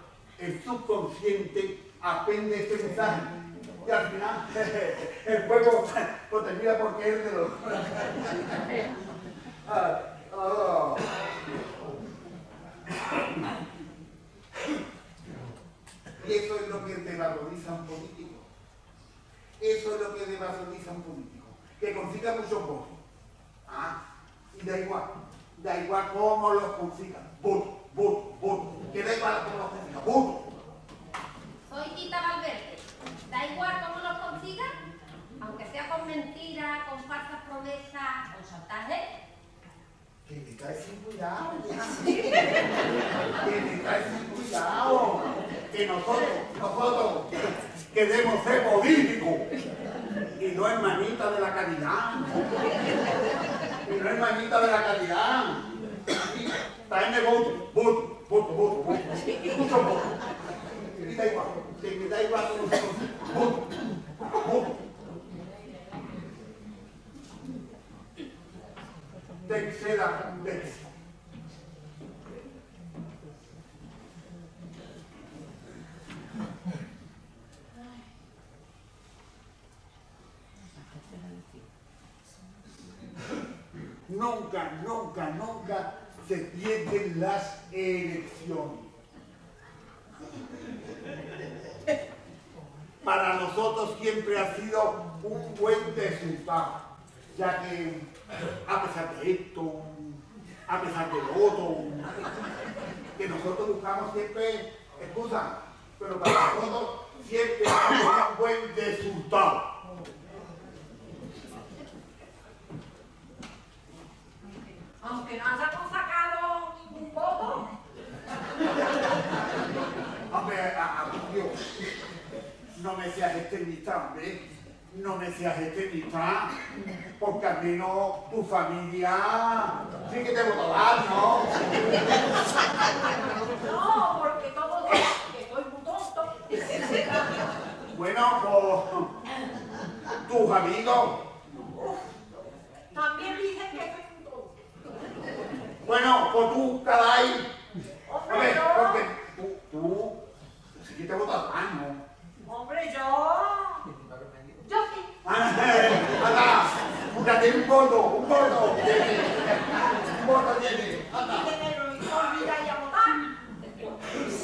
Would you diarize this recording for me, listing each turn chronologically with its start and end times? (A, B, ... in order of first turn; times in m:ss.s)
0:00.4-0:03.3 A
0:03.8-0:08.6 A
0:09.6-0:11.1 A
0:12.9-0:13.4 A
0:16.2-0:18.4 A
0:19.6-0:23.0 A
0:23.6-0:24.0 A
0:24.5-0:30.5 A
0:31.7-0:34.7 B
0:35.4-0:39.1 B
0:40.2-0:41.9 A
0:43.3-0:47.3 A
0:47.9-0:49.5 A
0:50.4-0:52.4 A
0:53.8-0:55.6 A
0:56.2-1:00.1 A
1:01.0-1:03.7 A
1:04.4-1:04.8 A
1:09.4-1:10.9 A
1:24.1-1:28.9 A
1:33.0-1:36.8 A
1:37.3-1:38.1 A
1:38.6-1:42.3 A
1:43.2-1:49.7 A
1:55.0-1:57.7 C
2:00.3-2:01.6 A
2:02.7-2:06.5 A
2:07.2-2:11.6 A
2:13.5-2:17.4 C
2:17.9-2:19.1 A
2:20.2-2:21.2 A
2:22.9-2:24.5 C
2:25.8-2:27.5 A
2:28.1-2:29.0 C
2:28.2-2:30.2 A
2:30.8-2:32.0 A
2:32.5-2:33.8 C
2:34.6-2:35.1 C
2:35.2-2:41.5 A
2:41.2-2:43.2 C